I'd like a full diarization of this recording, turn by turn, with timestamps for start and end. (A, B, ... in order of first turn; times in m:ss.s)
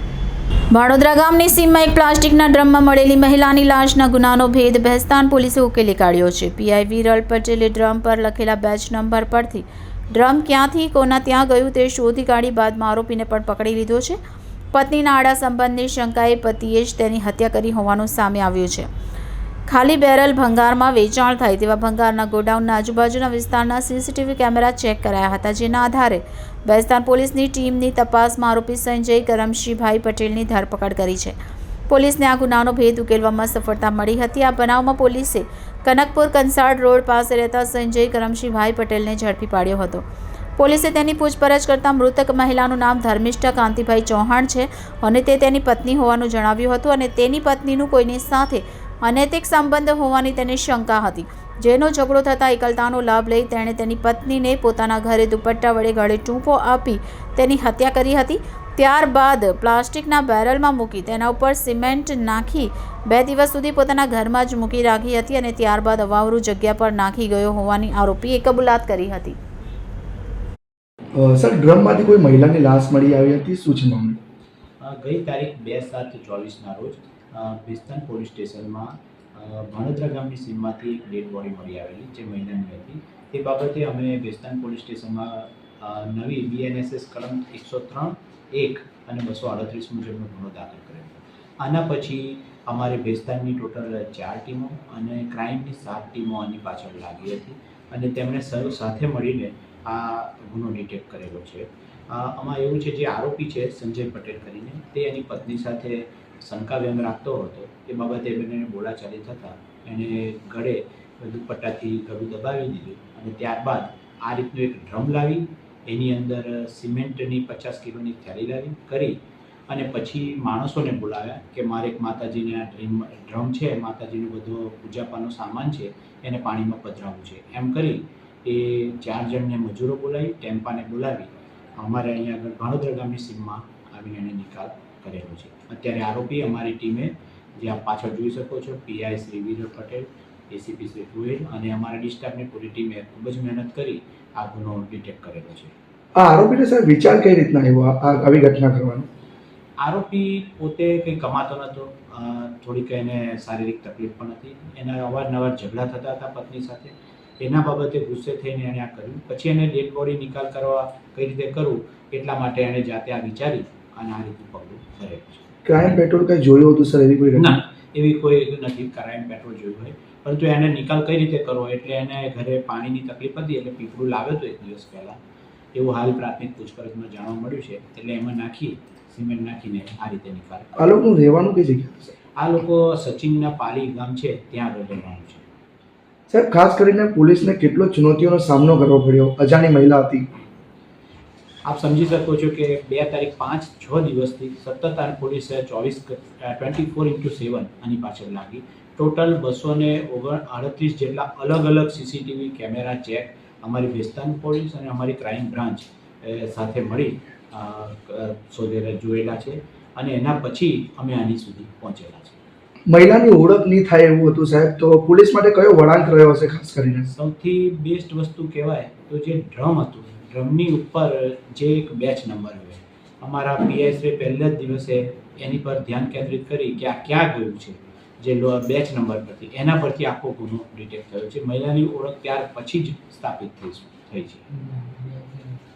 0:00.7-0:14.2 A
0:14.7-0:18.9 A
0:19.7-0:31.4 A
0:31.9-0:40.0 A
0:40.6-1:09.4 A
1:11.2-1:14.2 B
1:14.8-2:25.7 C
2:26.2-2:29.1 B
2:29.8-2:45.5 C
2:45.6-2:47.6 B
2:47.4-2:55.2 C
2:55.7-3:01.0 C
3:00.8-3:02.2 B
3:02.4-3:05.4 C
3:06.3-3:10.3 B
3:11.6-3:32.4 C
3:32.9-3:37.1 B
3:37.1-3:54.4 C
3:54.7-3:55.4 B